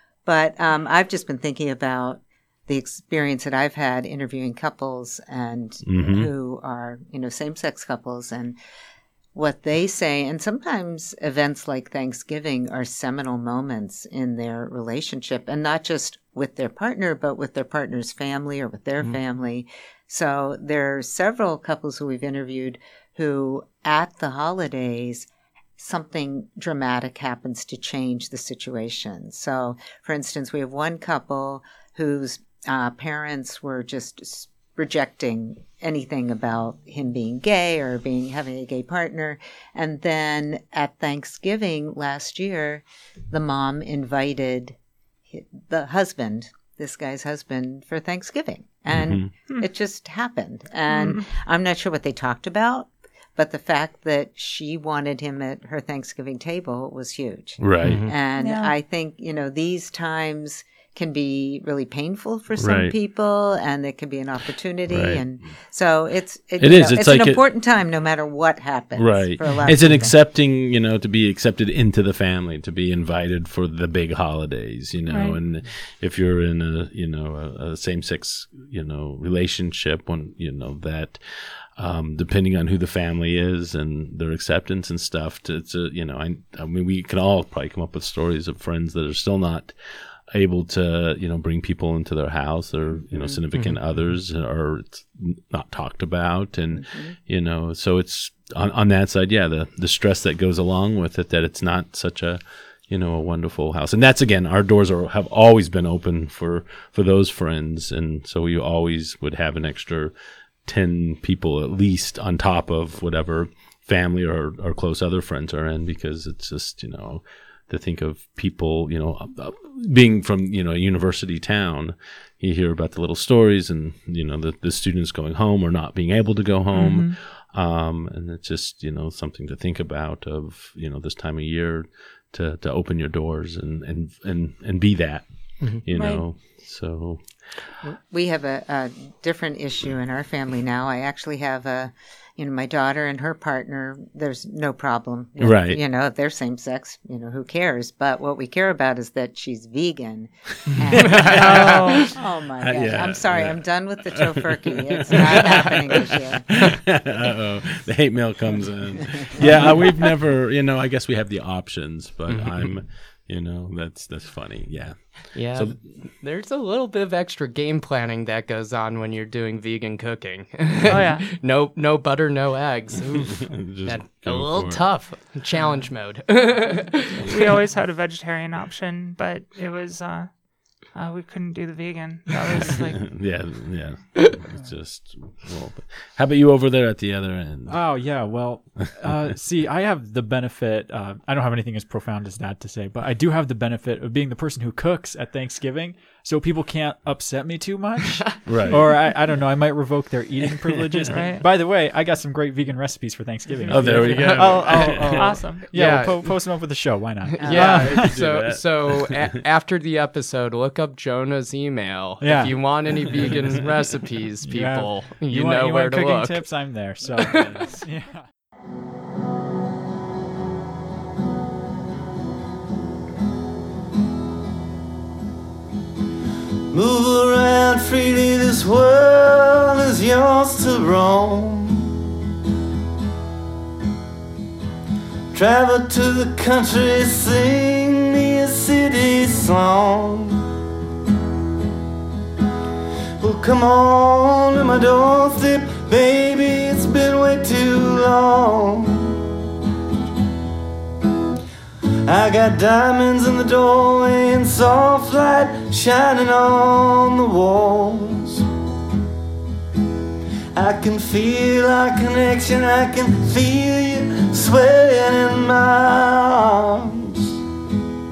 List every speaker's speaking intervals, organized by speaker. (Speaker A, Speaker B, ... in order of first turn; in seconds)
Speaker A: 0.3-8.6, 9.3-44.8, 45.3-70.2, 96.9-97.2, 138.1-156.7, 159.4-159.8
Speaker B: 5.8-6.3, 48.9-49.3, 57.6-58.0, 62.6-62.9, 64.9-65.2, 66.6-67.4, 69.0-81.2, 81.8-110.1, 110.7-137.5, 145.4-145.8, 152.6-166.1, 173.4-175.0, 182.7-188.2, 188.9-189.3, 198.4-198.9, 203.7-205.3, 207.4-209.0
Speaker C: 50.9-51.2, 58.4-58.7, 75.1-75.4, 126.7-127.2, 135.9-136.2, 151.3-152.1, 170.9-171.3, 177.2-183.1, 201.1-201.5, 205.0-205.7
Speaker D: 57.8-58.1, 93.5-94.0, 151.0-152.1, 159.4-159.8, 162.3-162.7, 165.3-177.3, 203.8-206.3, 207.3-216.4, 217.1-217.8
Speaker E: 187.7-208.2, 212.2-213.6, 214.4-218.3
Speaker F: 226.7-232.0, 235.3-240.5, 243.2-249.3, 252.1-258.4, 260.6-267.4